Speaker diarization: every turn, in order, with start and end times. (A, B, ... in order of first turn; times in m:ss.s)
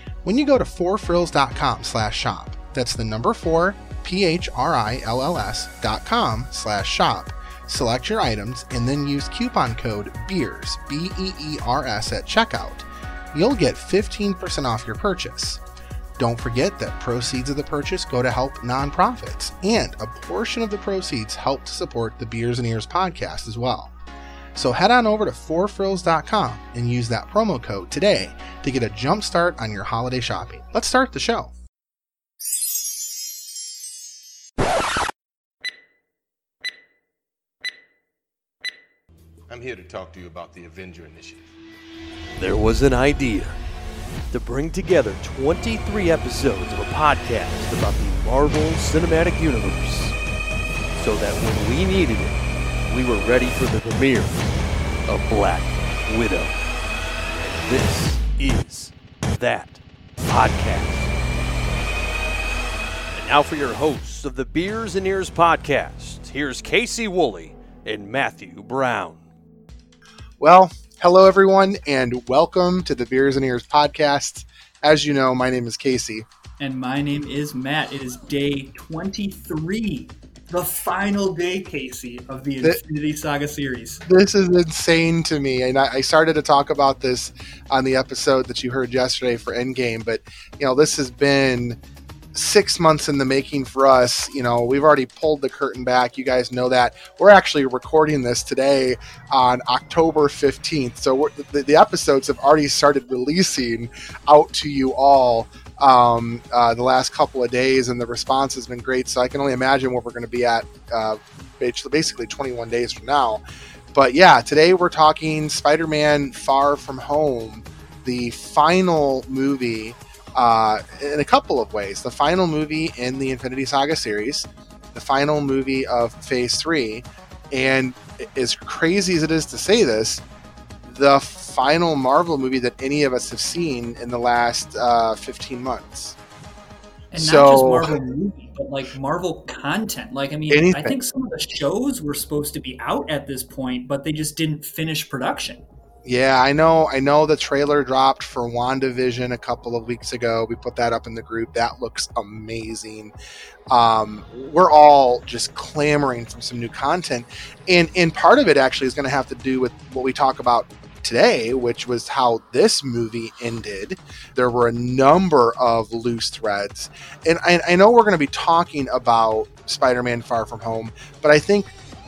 0:00.2-0:15.6 A
0:16.2-0:23.9 A
0:24.6-0:31.5 A
0:39.5-0:41.5 B
0:42.4-0:43.6 C
0:44.3-0:50.2 C
0:51.0-0:54.4 C
0:55.1-0:56.6 C
0:57.4-1:01.1 C
1:03.1-1:09.2 C
1:10.4-1:16.2 A
1:16.6-1:24.0 D
1:24.1-1:31.8 A
1:32.3-1:53.4 A
1:53.9-2:10.2 A
2:10.8-2:16.2 A
2:17.1-2:25.6 D
2:17.1-2:17.9 A
2:20.5-2:20.9 A
2:26.0-2:33.1 A
2:33.7-2:51.7 A